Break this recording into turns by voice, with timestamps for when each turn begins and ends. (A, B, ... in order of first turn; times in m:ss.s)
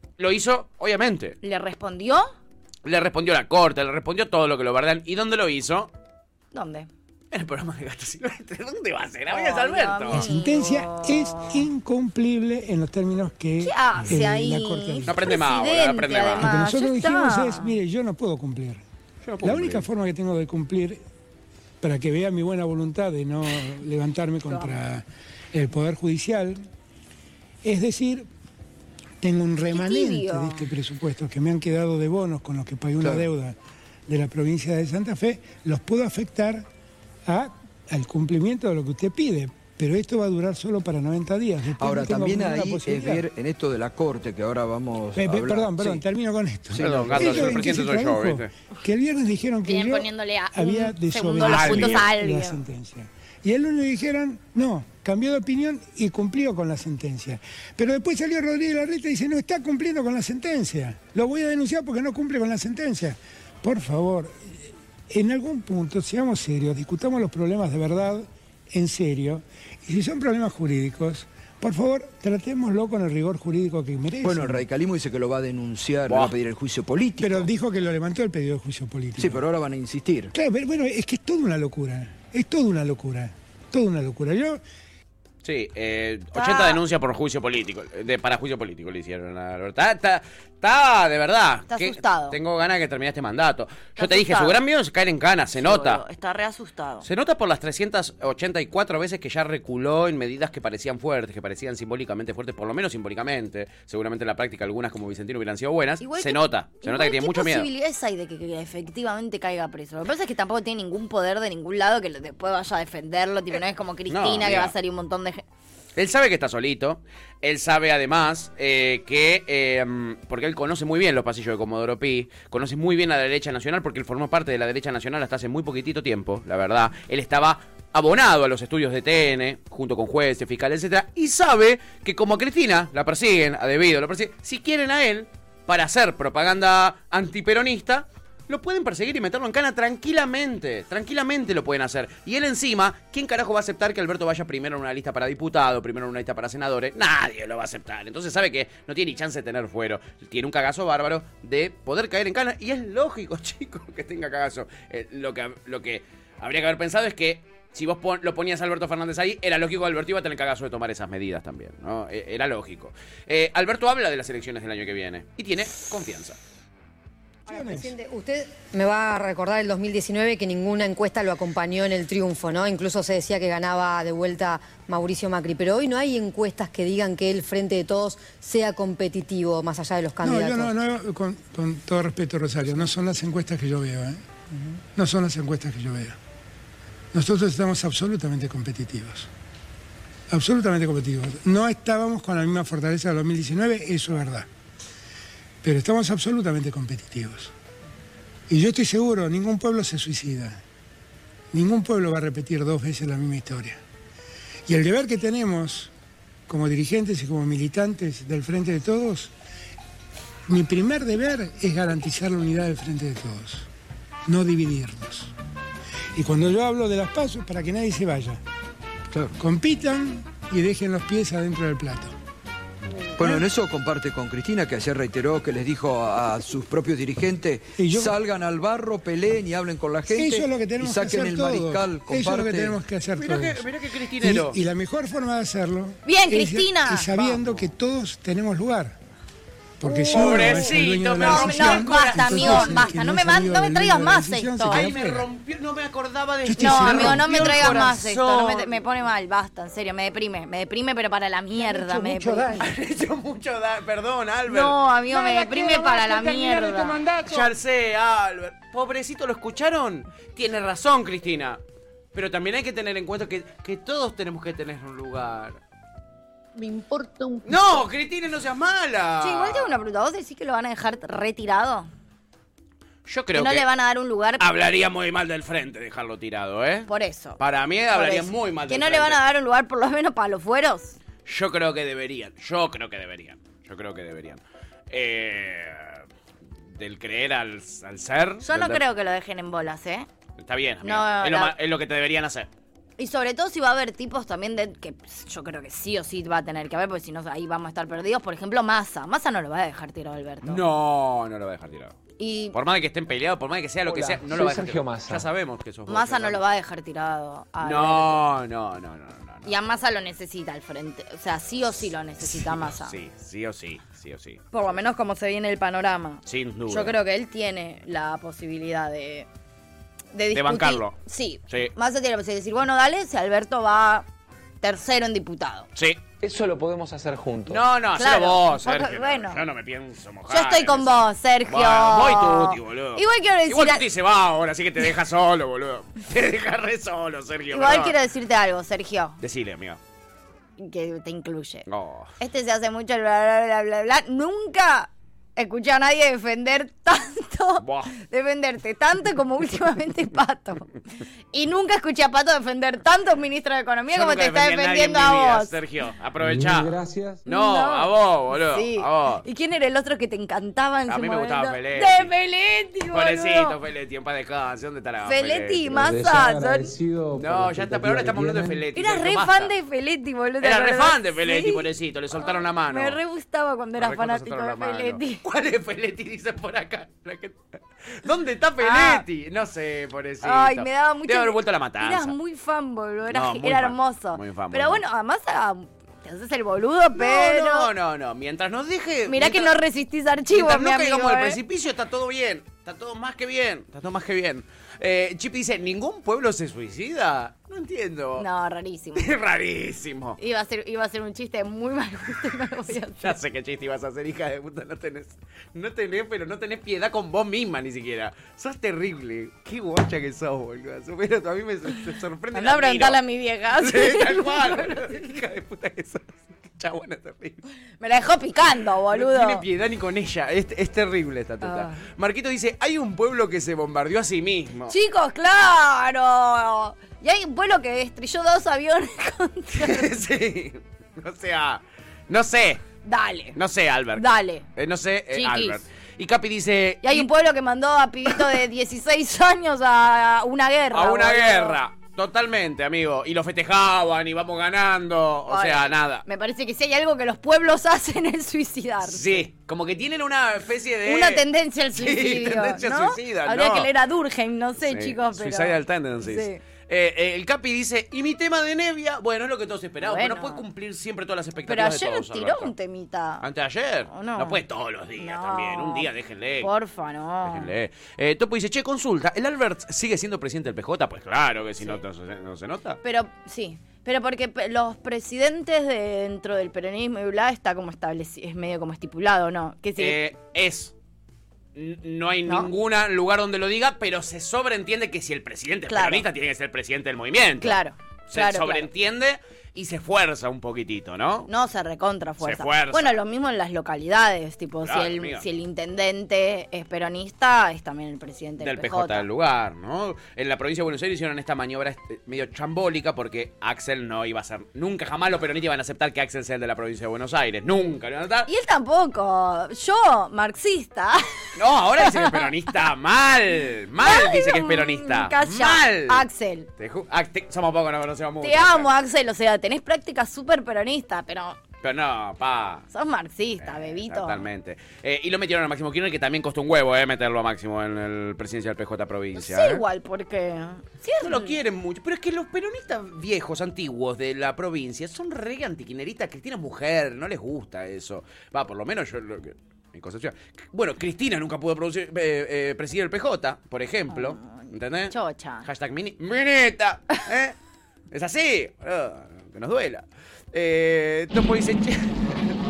0:00.2-0:01.4 A
0:01.4-0:02.3 B
0:02.8-0:05.9 A
0:06.5-0:06.9 B
0:07.3-0:10.2 A
0:09.3-0:11.6 B
0:10.1-0:15.3 C
0:13.6-0:17.7 B
0:15.1-0:16.5 A
0:16.4-0:18.8 C
0:19.2-0:19.8 A
0:19.4-0:21.0 C
0:21.8-0:26.6 C
0:27.6-0:28.3 C
0:29.2-0:33.6 C
0:29.7-0:30.7 B
0:33.0-0:33.3 D
0:34.1-0:36.7 C
0:37.2-0:43.2 C
0:41.8-0:46.0 D
0:45.1-1:14.6 C
0:46.7-0:47.8 D
0:46.8-0:48.5 A
0:49.6-0:52.6 B
0:51.4-0:52.0 A
1:14.2-1:17.5 D
1:16.1-1:16.3 A
1:17.2-1:19.4 C
1:19.2-1:20.3 D
1:20.3-1:24.6 C
1:25.4-1:36.0 A
1:26.3-1:26.8 B
1:31.7-1:32.4 B
1:34.0-1:34.6 B
1:35.6-1:37.0 B
1:37.0-1:47.7 A
1:46.0-1:55.4 B
1:54.1-1:54.7 A
1:56.0-2:46.4 A
2:47.5-2:47.9 C
2:47.5-3:00.7 E
3:00.2-3:06.2 C
3:07.1-3:09.3 C
3:10.3-3:14.5 C
3:15.6-3:17.5 C
3:18.5-3:20.6 C
3:21.5-3:23.8 C
3:24.7-3:25.9 C
3:26.5-3:29.3 C
3:30.5-3:33.7 C
3:34.2-3:35.3 C
3:36.1-3:38.4 C
3:39.4-3:42.1 C
3:43.2-3:43.5 C
3:43.2-3:52.8 D
3:47.8-3:48.2 C
3:50.1-3:53.6 C
3:53.2-3:54.6 A
3:54.2-3:59.0 C
3:56.0-3:57.4 B
3:59.8-4:05.2 C
3:59.8-4:04.9 B
4:00.1-4:02.9 A
4:04.7-4:08.8 A
4:06.4-4:07.8 C
4:06.6-4:12.6 B
4:11.6-4:12.7 C
4:12.6-4:21.6 A
4:14.5-4:17.0 B
4:22.1-4:25.6 A
4:27.4-4:29.8 A
4:29.2-4:31.9 B
4:33.0-4:33.6 A
4:33.3-4:34.5 B
4:34.4-4:39.2 A
4:36.9-4:37.4 B
4:37.9-4:41.0 B
4:41.2-4:46.0 A
4:46.8-4:48.8 A
4:48.4-4:50.1 B
4:50.4-4:52.5 A
4:50.8-4:51.5 B
4:53.0-5:00.6 B
5:00.4-5:02.0 A
5:02.2-5:02.6 B
5:02.5-5:06.4 A
5:03.8-5:05.2 F
5:05.9-5:08.2 B
5:07.6-5:09.5 A
5:09.4-5:13.0 B
5:12.7-5:14.4 A
5:14.5-5:19.3 B
5:16.2-5:17.0 A
5:20.1-5:24.1 B
5:20.3-5:21.0 A
5:24.6-5:25.7 B
5:26.2-5:27.6 F
5:27.5-5:37.9 A
5:28.0-5:29.4 B
5:30.3-5:33.8 B
5:37.5-5:39.2 B
5:39.2-5:39.8 A
5:40.6-5:41.7 B
5:41.7-5:42.1 A
5:42.2-5:50.7 B
5:47.6-5:47.9 A
5:51.3-5:55.5 B
5:53.9-5:59.2 A
5:56.2-5:57.2 F
5:57.2-6:03.5 B
6:00.9-6:02.1 A
6:02.9-6:05.7 A
6:05.0-6:06.7 B
6:05.7-6:08.6 F
6:07.1-6:09.5 A
6:08.7-6:11.6 B
6:10.4-6:13.0 A
6:12.2-6:15.2 B
6:13.8-6:17.4 A
6:18.0-6:22.1 A
6:18.6-6:19.0 B
6:20.2-6:27.7 B
6:23.1-6:24.8 A
6:27.0-6:29.5 A
6:29.1-6:31.4 B
6:30.3-6:38.2 A
6:38.2-6:39.1 B
6:39.0-6:40.2 A
6:40.2-6:43.2 B
6:43.0-6:53.0 A
6:52.3-6:54.9 B
6:53.6-6:57.4 A
6:57.8-6:59.4 B
6:58.9-7:04.7 A
7:01.4-7:01.8 B
7:04.7-7:09.9 B
7:09.6-7:12.6 A
7:12.8-7:13.4 B
7:13.3-7:17.1 A
7:13.9-7:14.4 B
7:15.1-7:15.6 B
7:16.8-7:21.6 B
7:20.7-7:26.0 A
7:25.3-7:29.2 B
7:28.8-7:33.7 A
7:30.8-7:36.4 B
7:34.6-7:42.5 A
7:39.8-7:40.4 B
7:41.4-7:43.2 B
7:43.2-7:46.5 A
7:43.9-7:44.4 B
7:45.0-7:45.9 B
7:46.4-7:47.5 B
7:47.2-7:52.8 A
7:52.8-8:00.0 B
7:59.8-8:00.7 A
8:01.5-8:11.3 A
8:02.3-8:02.5 B
8:05.7-8:06.1 B
8:07.4-8:08.7 B
8:11.3-8:19.0 B
8:12.2-8:13.0 A
8:14.6-8:15.2 A
8:18.4-8:28.3 A
8:28.2-8:31.0 B
8:31.4-8:36.0 A
8:31.8-8:32.3 B
8:33.8-8:36.5 B
8:36.6-8:38.7 A
8:38.2-8:41.4 B
8:41.6-8:42.7 A
8:42.7-8:44.2 B
8:43.4-8:49.6 A
8:49.1-8:51.3 B
8:51.0-9:07.3 A
9:03.9-9:05.5 B
9:07.9-9:12.1 A